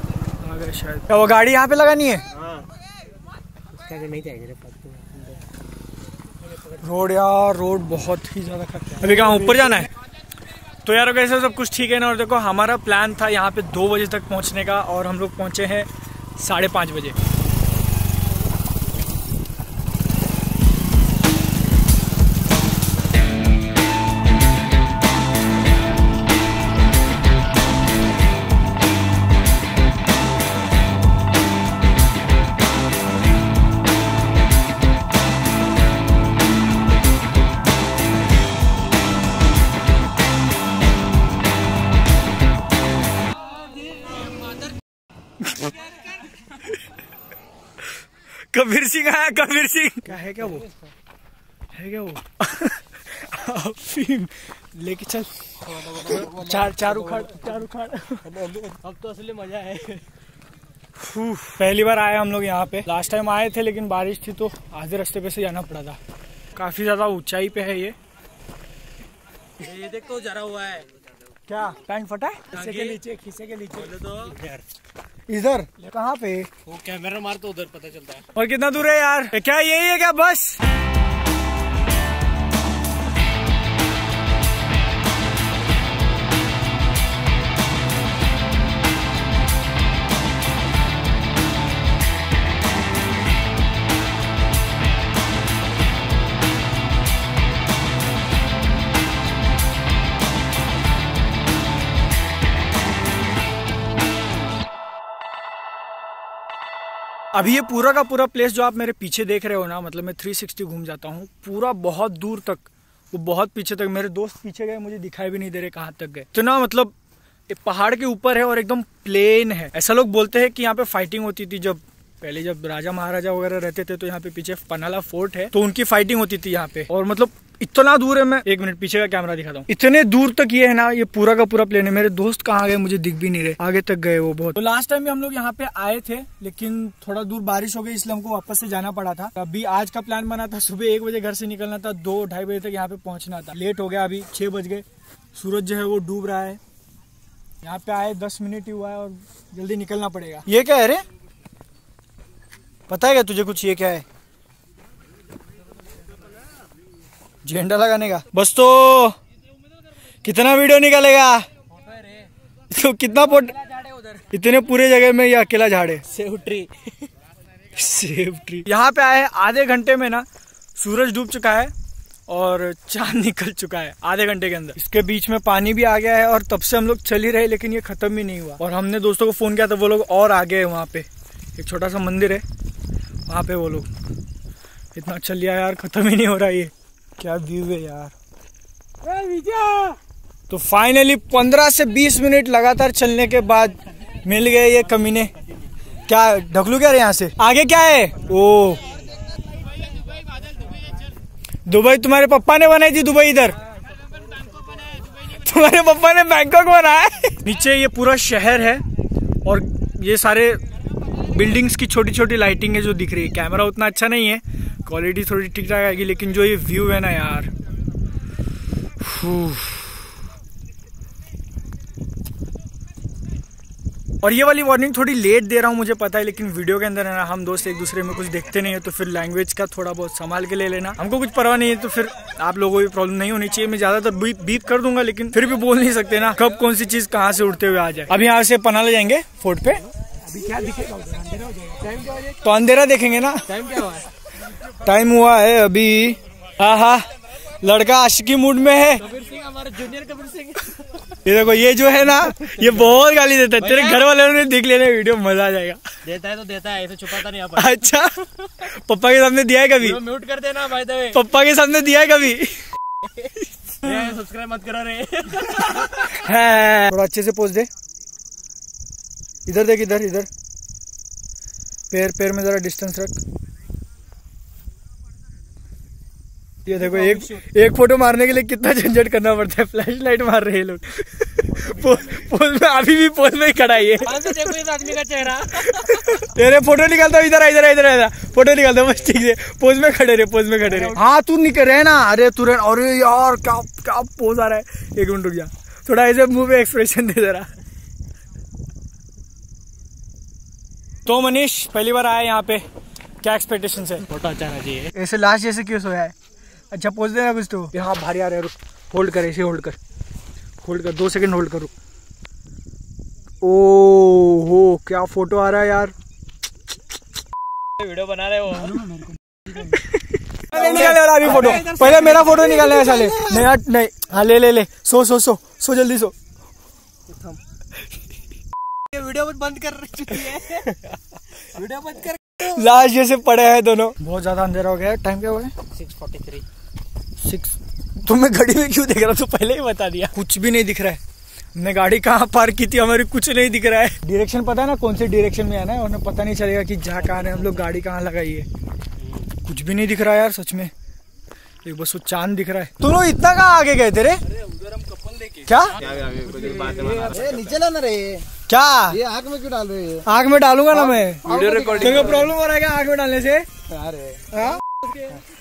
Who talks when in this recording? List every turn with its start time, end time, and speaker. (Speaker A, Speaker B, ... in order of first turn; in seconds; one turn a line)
Speaker A: 0.4-2.3
Speaker B: 3.7-5.4
Speaker A: 6.7-9.9
Speaker A: 10.8-17.2
Speaker A: 48.5-50.7
Speaker B: 50.3-50.7
Speaker A: 51.7-58.3
Speaker B: 55.7-57.5
Speaker B: 58.3-60.1
Speaker A: 61.0-66.0
Speaker A: 66.5-68.0
Speaker B: 69.6-70.9
Speaker A: 71.5-73.9
Speaker B: 72.5-73.0
Speaker B: 73.7-74.6
Speaker A: 75.3-76.5
Speaker B: 76.7-78.2
Speaker A: 78.3-80.6
Speaker A: 107.3-116.9
Speaker A: 117.5-146.6
Speaker A: 147.6-151.0
Speaker A: 152.9-154.1
Speaker A: 157.4-159.2
Speaker A: 160.2-161.5
Speaker B: 161.8-162.3
Speaker A: 162.7-163.6
Speaker B: 163.4-164.2
Speaker A: 164.3-166.1
Speaker B: 166.1-167.1
Speaker A: 167.7-171.7
Speaker A: 172.3-182.4
Speaker A: 183.3-183.9
Speaker A: 184.9-188.1
Speaker A: 189.1-189.9
Speaker A: 190.5-195.3
Speaker A: 196.1-198.8
Speaker A: 201.7-203.6
Speaker A: 205.3-208.8
Speaker A: 209.4-210.6
Speaker A: 211.2-217.5
Speaker A: 219.0-220.0
Speaker A: 224.2-239.8
Speaker B: 240.3-242.3
Speaker A: 242.4-243.5
Speaker B: 243.5-244.1
Speaker A: 244.7-247.1
Speaker A: 247.6-249.0
Speaker B: 249.0-251.0
Speaker A: 251.2-255.8
Speaker B: 253.6-254.0
Speaker B: 256.0-257.8
Speaker A: 257.5-260.0
Speaker B: 259.8-261.2
Speaker A: 261.1-262.6
Speaker B: 263.2-266.1
Speaker A: 263.6-264.1
Speaker A: 265.8-267.7
Speaker A: 269.5-270.3
Speaker A: 271.9-273.2
Speaker A: 276.6-284.5
Speaker B: 276.8-277.4
Speaker B: 284.0-286.2
Speaker A: 285.5-297.5
Speaker A: 301.0-302.6
Speaker A: 303.2-304.1
Speaker B: 304.1-304.9
Speaker A: 304.9-306.1
Speaker A: 306.7-309.8
Speaker A: 310.6-311.7
Speaker A: 313.4-315.9
Speaker A: 317.8-326.1
Speaker B: 320.5-323.4
Speaker B: 327.1-327.4
Speaker B: 328.9-330.9
Speaker B: 331.5-332.2
Speaker A: 332.4-335.5
Speaker B: 335.7-336.4
Speaker A: 337.2-341.0
Speaker A: 341.5-348.5
Speaker A: 349.4-350.7
Speaker A: 351.6-354.2
Speaker A: 355.4-355.9
Speaker B: 355.8-357.6
Speaker C: 356.3-358.3
Speaker A: 358.5-359.0
Speaker C: 358.9-360.1
Speaker A: 360.0-363.5
Speaker C: 360.9-362.3
Speaker B: 361.4-361.8
Speaker C: 363.7-364.4
Speaker A: 364.3-364.6